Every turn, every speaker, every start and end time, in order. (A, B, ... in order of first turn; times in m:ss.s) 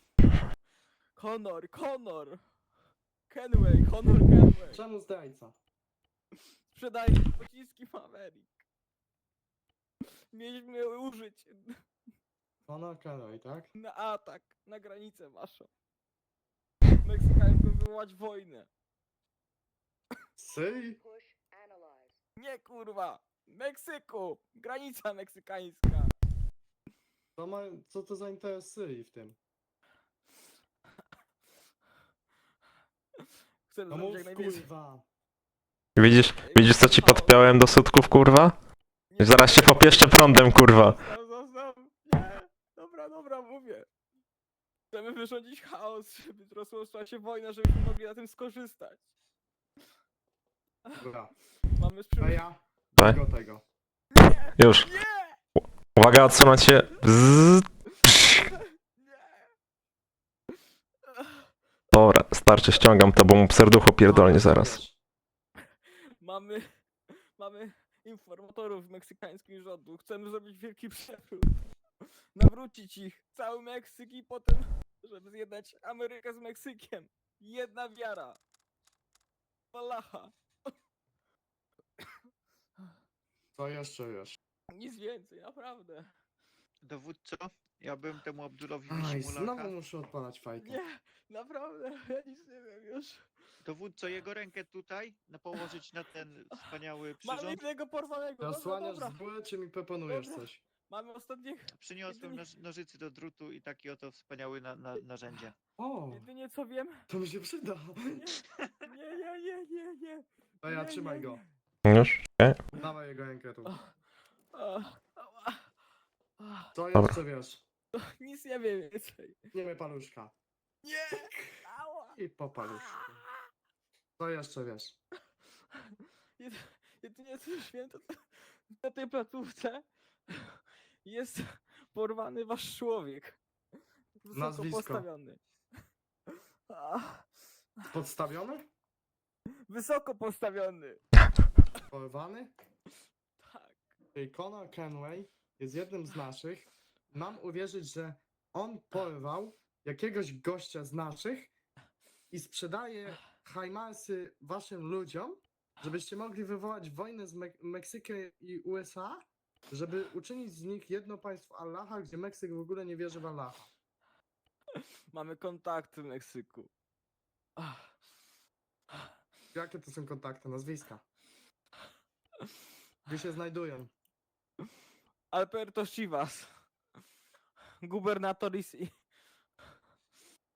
0:01.2-0:02.4 A
0:03.3-0:04.8 A
0:04.7-0:05.6 B
0:06.7-0:08.6 A
0:10.3-0:11.8 A
0:12.7-0:13.7 B
0:13.8-0:15.7 A
0:17.0-0:18.7 A
0:20.4-0:21.0 B
0:22.4-0:26.1 A
0:27.4-0:29.4 B
0:33.7-0:34.6 A
0:33.9-0:35.1 B
0:36.0-0:38.6 C
0:36.4-0:37.6 A
0:39.1-0:43.9 A
0:39.2-0:41.0 C
0:44.9-0:49.1 A
0:50.9-0:51.1 A
0:51.0-0:51.3 B
0:51.8-0:52.4 A
0:52.2-0:53.6 B
0:54.2-0:55.4 A
0:54.6-0:54.9 C
0:56.0-0:57.6 C
0:58.5-0:59.5 A
1:01.9-1:04.8 C
1:04.0-1:05.0 B
1:06.2-1:06.7 A
1:07.4-1:11.6 A
1:12.4-1:18.4 A
1:19.7-1:20.3 A
1:23.6-1:24.4 B
1:24.7-1:26.1 A
1:26.8-1:29.8 D
1:28.9-1:30.8 B
1:30.6-1:33.3 A
1:33.6-1:37.6 D
1:37.2-1:39.2 A
1:38.4-1:40.6 B
1:40.1-1:42.4 A
1:41.7-1:45.6 D
1:45.8-1:46.2 B
1:46.1-1:47.1 A
1:47.1-1:48.3 B
1:48.2-1:51.4 A
1:50.6-1:51.4 B
1:51.8-1:52.6 C
1:52.8-1:53.7 B
1:54.5-1:55.6 A
1:56.4-1:56.7 A
1:56.7-1:57.6 B
1:57.9-1:59.4 A
1:59.5-2:00.4 B
2:00.8-2:02.2 A
2:02.1-2:03.2 B
2:02.7-2:03.2 A
2:04.2-2:05.0 B
2:06.4-2:13.4 A
2:14.2-2:15.4 A
2:14.3-2:15.1 B
2:16.3-2:17.3 A
2:17.9-2:18.7 B
2:19.7-2:21.0 A
2:21.9-2:22.5 B
2:23.4-2:23.8 A
2:24.1-2:31.5 B
2:32.3-2:43.7 B
2:45.1-2:46.7 A
2:47.6-2:47.9 A
2:49.5-2:51.0 B
2:53.1-2:53.9 B
2:55.3-2:56.5 A
2:57.8-2:58.9 A